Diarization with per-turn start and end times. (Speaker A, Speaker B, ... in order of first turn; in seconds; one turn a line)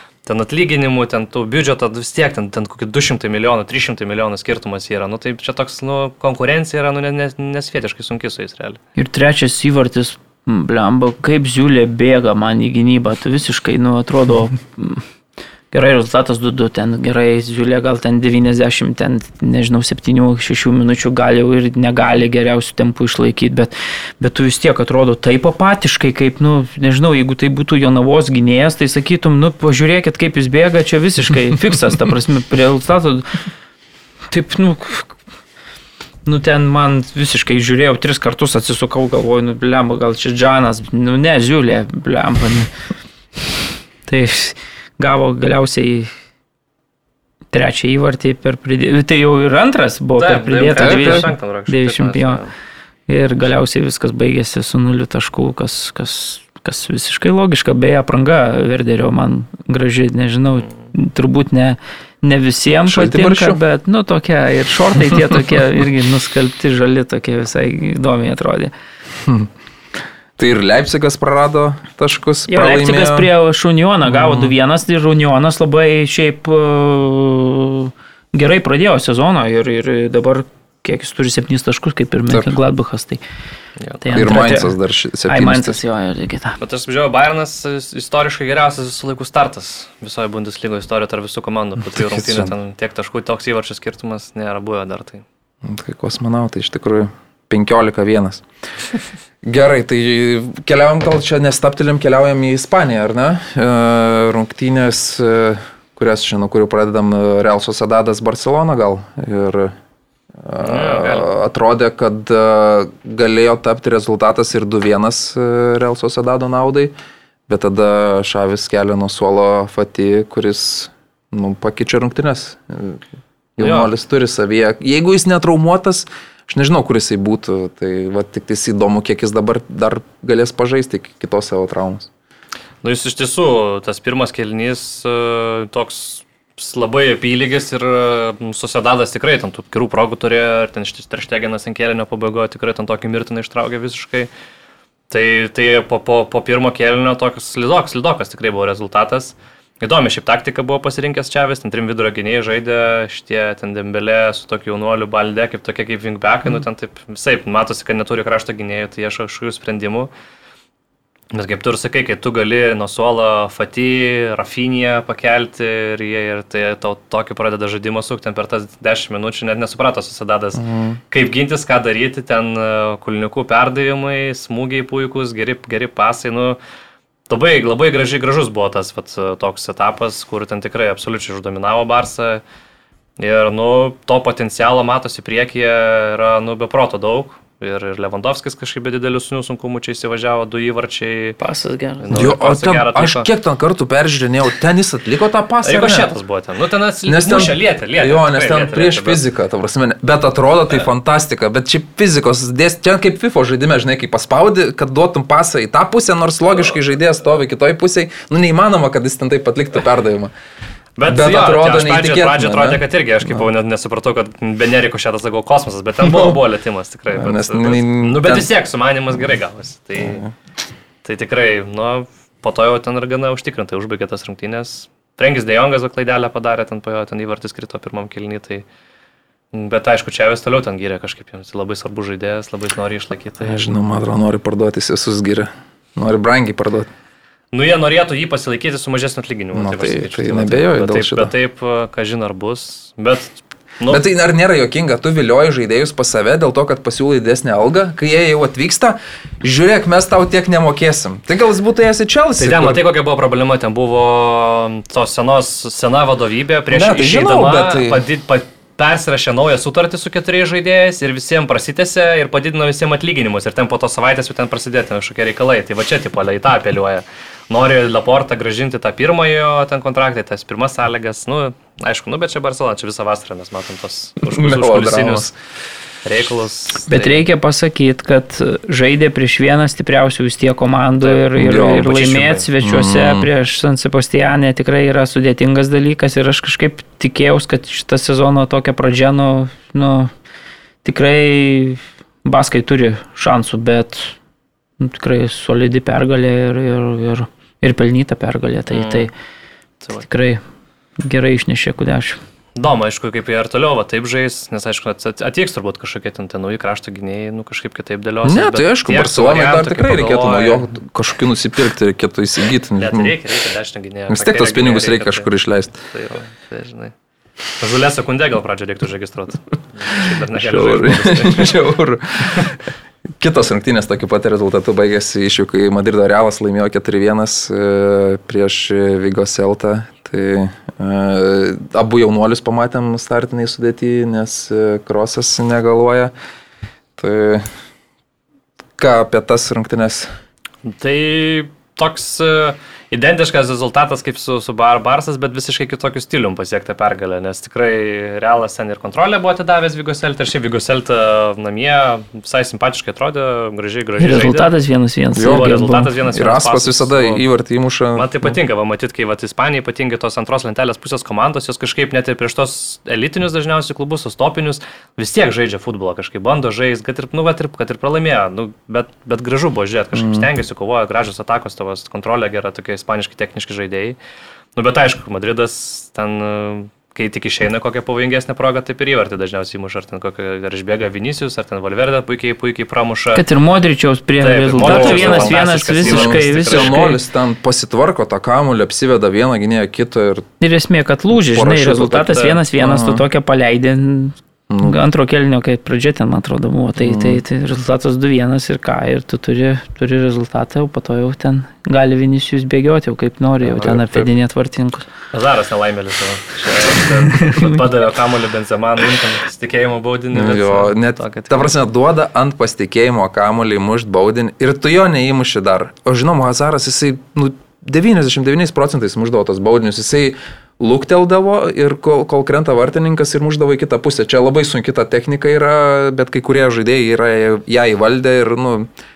Speaker A: 0.2-8.8
Speaker B: 9.0-15.1
Speaker B: 15.7-33.3
Speaker B: 34.3-35.1
Speaker B: 36.2-42.7
Speaker B: 44.0-46.1
Speaker B: 47.5-52.4
Speaker A: 50.2-52.5
Speaker C: 50.7-51.3
Speaker B: 53.1-68.7
Speaker C: 62.9-63.6
Speaker C: 69.2-69.5
Speaker C: 70.4-73.3
Speaker B: 72.5-83.2
Speaker C: 74.1-74.5
Speaker B: 84.0-84.7
Speaker C: 84.1-85.8
Speaker B: 85.3-86.6
Speaker A: 86.6-95.2
Speaker C: 92.0-92.5
Speaker C: 95.6-98.4
Speaker C: 99.4-109.7
Speaker C: 110.4-116.9
Speaker A: 110.6-111.3
Speaker C: 117.5-123.0
Speaker C: 123.6-132.1
Speaker A: 123.6-123.9
Speaker A: 132.8-144.3
Speaker A: 145.1-160.1
Speaker A: 161.3-176.6
Speaker C: 170.6-171.0
Speaker A: 177.3-182.4
Speaker A: 183.2-191.4
Speaker B: 191.4-192.3
Speaker A: 192.0-193.3
Speaker C: 192.1-196.1
Speaker A: 195.6-199.2
Speaker C: 197.0-210.3
Speaker A: 211.0-220.2
Speaker C: 211.1-213.5
Speaker C: 216.0-216.4
Speaker C: 217.1-218.5
Speaker C: 220.0-220.3
Speaker A: 221.0-228.6
Speaker A: 229.5-233.7
Speaker C: 233.4-236.9
Speaker A: 237.5-244.0
Speaker C: 239.5-241.3
Speaker C: 243.9-252.8
Speaker A: 252.4-275.3
Speaker C: 256.7-258.0
Speaker C: 274.2-275.3
Speaker A: 276.0-277.2
Speaker B: 276.9-290.1
Speaker A: 281.0-282.5
Speaker C: 281.4-282.1
Speaker C: 282.6-283.3
Speaker B: 290.8-294.1
Speaker B: 294.8-299.1
Speaker A: 298.7-299.1
Speaker B: 300.0-300.4
Speaker B: 301.0-302.2
Speaker A: 302.6-310.8
Speaker C: 308.2-313.1
Speaker A: 312.8-315.3
Speaker C: 314.1-315.8
Speaker A: 315.8-316.9
Speaker A: 317.5-321.6
Speaker C: 319.9-322.6
Speaker C: 323.2-336.1
Speaker C: 337.0-337.4
Speaker C: 338.8-340.1
Speaker A: 340.6-354.5
Speaker B: 354.0-355.9
Speaker C: 355.1-355.5
Speaker A: 355.2-357.2
Speaker C: 356.1-358.1
Speaker A: 357.9-374.0
Speaker C: 369.9-370.3
Speaker A: 374.6-383.2
Speaker B: 383.1-387.0
Speaker A: 384.2-386.9
Speaker C: 384.6-390.2
Speaker B: 390.4-404.9
Speaker C: 391.1-393.0
Speaker A: 392.1-392.4
Speaker C: 394.5-394.8
Speaker C: 396.8-397.2
Speaker C: 403.4-404.1
Speaker A: 405.1-411.5
Speaker C: 410.1-428.7